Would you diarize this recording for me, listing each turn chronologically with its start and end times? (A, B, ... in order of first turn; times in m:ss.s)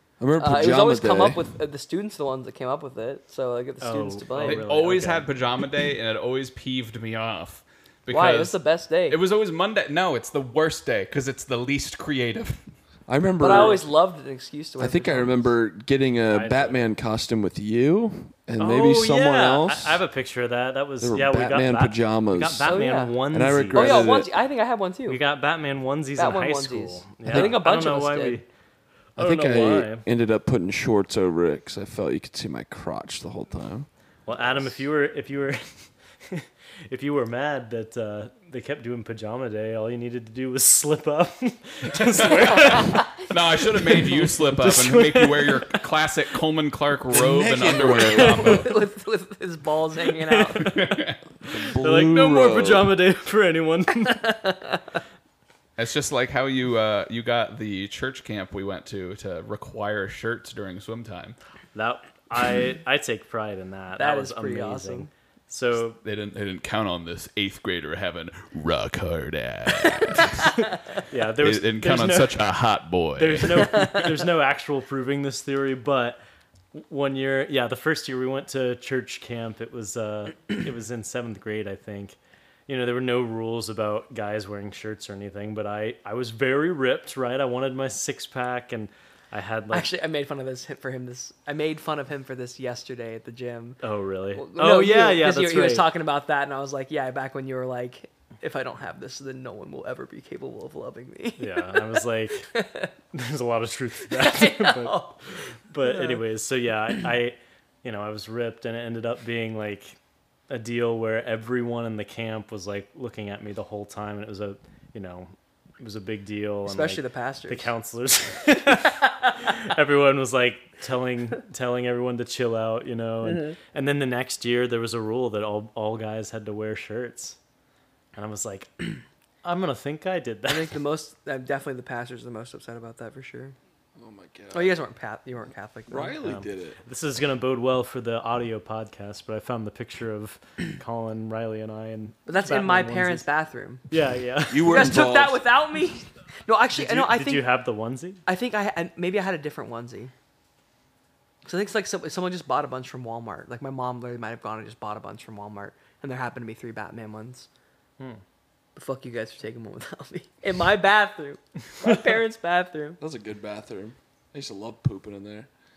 0:00.2-0:01.5 A
0:00.4-0:04.7 B
0:03.8-0:05.3 C
0:04.4-0:12.6 D
0:08.1-0:09.2 B
0:13.1-0:13.9 A
0:13.4-0:15.5 B
0:14.8-0:20.0 A
0:16.3-0:16.9 C
0:18.6-0:24.1 C
0:21.0-0:24.3 A
0:22.6-0:23.2 B
0:23.7-0:25.2 B
0:25.1-0:28.4 C
0:26.2-0:28.4 B
0:27.3-0:27.6 A
0:29.2-0:30.1 C
0:29.2-0:33.9 A
0:34.3-0:43.1 C
0:42.1-0:48.8 D
0:44.0-0:45.8 C
0:47.1-0:48.7 A
0:48.3-0:50.7 B
0:50.2-0:50.9 C
0:50.6-0:51.2 D
0:51.5-0:52.9 A
0:51.5-0:54.3 C
0:54.2-0:54.8 B
0:55.8-1:01.4 D
1:01.8-1:06.0 C
1:04.0-1:05.1 B
1:06.0-1:10.6 D
1:11.1-1:12.4 C
1:11.4-1:13.7 D
1:13.2-1:16.2 C
1:13.7-1:14.1 B
1:16.7-1:29.9 C
1:29.7-1:33.8 B
1:33.8-1:35.9 C
1:34.3-1:42.0 B
1:41.4-1:42.5 C
1:42.5-1:42.9 B
1:43.1-1:45.0 C
1:44.1-1:45.2 B
1:45.7-1:50.0 C
1:45.8-1:46.2 B
1:50.5-2:07.4 C
1:56.7-1:57.7 B
2:03.2-2:03.6 B
2:08.2-2:10.8 C
2:10.5-2:13.6 B
2:14.0-2:14.8 A
2:14.5-2:16.2 B
2:15.9-2:16.8 A
2:16.2-2:23.3 C
2:22.3-2:23.8 B
2:23.9-2:25.0 C
2:24.5-2:25.4 A
2:24.6-2:27.5 B
2:26.7-2:28.2 C
2:28.3-2:30.1 B
2:31.4-2:37.5 B
2:38.8-2:43.0 B
2:43.0-2:45.5 A